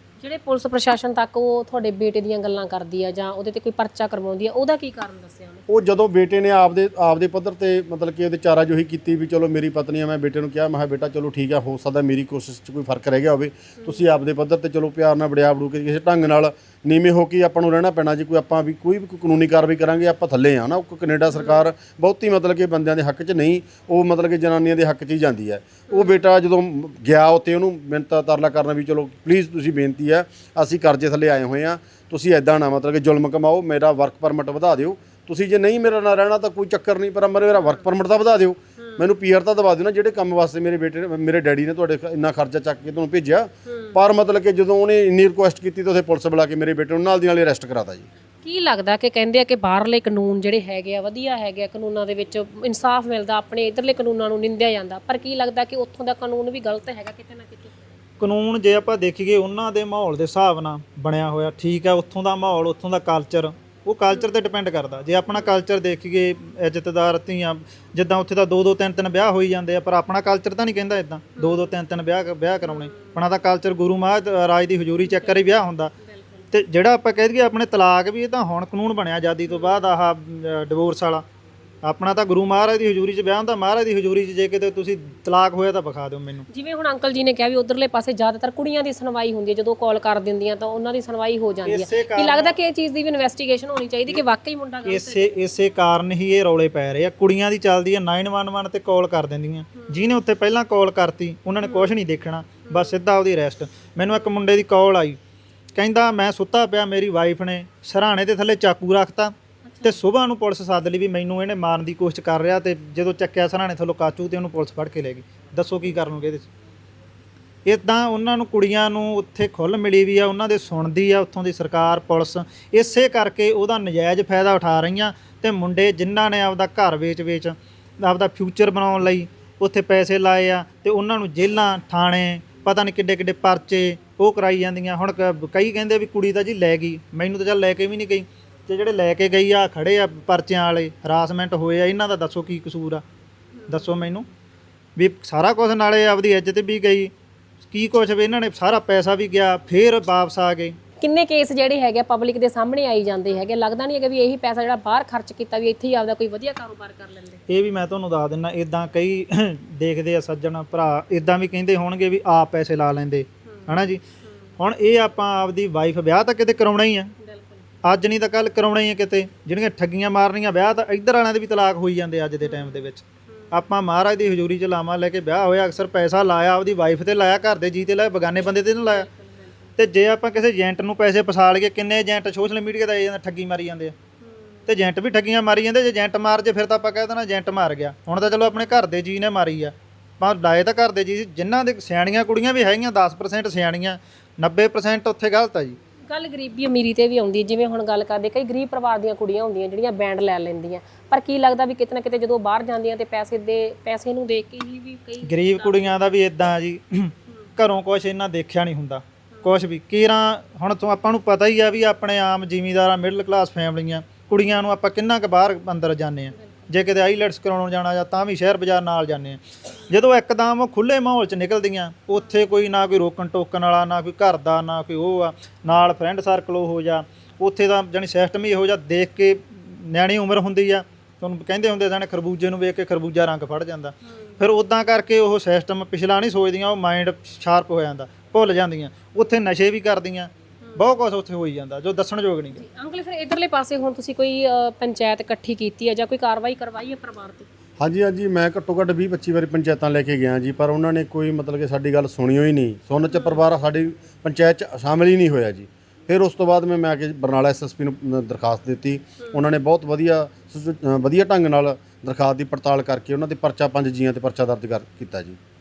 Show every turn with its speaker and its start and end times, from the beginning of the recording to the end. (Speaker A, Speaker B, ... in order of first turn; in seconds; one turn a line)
Speaker A: 0.2-5.6
Speaker B: 5.7-48.1
Speaker A: 13.8-14.1
Speaker A: 21.3-21.7
Speaker A: 25.9-26.2
Speaker A: 37.5-37.8
Speaker A: 38.8-39.1
Speaker A: 43.6-44.0
Speaker A: 48.4-57.7
Speaker C: 58.2-75.9
Speaker A: 71.4-71.7
Speaker A: 72.6-73.2
Speaker A: 75.0-76.5
Speaker C: 76.5-81.2
Speaker A: 79.5-79.8
Speaker C: 81.8-86.5
Speaker A: 86.5-95.3
Speaker C: 91.7-92.5
Speaker C: 94.8-105.2
Speaker A: 99.8-100.1
Speaker A: 101.6-102.0
Speaker A: 102.7-103.0
Speaker C: 105.8-116.5
Speaker A: 109.6-110.0
Speaker C: 117.7-143.0
Speaker A: 143.5-144.2
Speaker C: 143.7-144.2
Speaker C: 145.0-147.1
Speaker C: 147.7-150.8
Speaker A: 151.0-157.4
Speaker C: 157.5-164.0
Speaker A: 163.4-164.5
Speaker C: 164.6-167.1
Speaker A: 167.2-167.6
Speaker C: 167.8-179.1
Speaker A: 172.4-173.7
Speaker A: 178.4-179.5
Speaker C: 179.8-183.9
Speaker A: 184.2-184.7
Speaker C: 184.7-195.8
Speaker A: 196.1-206.1
Speaker C: 205.2-242.6
Speaker A: 207.3-207.5
Speaker A: 209.3-209.6
Speaker A: 216.3-216.7
Speaker A: 234.0-234.4
Speaker A: 242.6-247.5
Speaker B: 247.8-265.4
Speaker A: 253.1-253.4
Speaker A: 259.2-259.5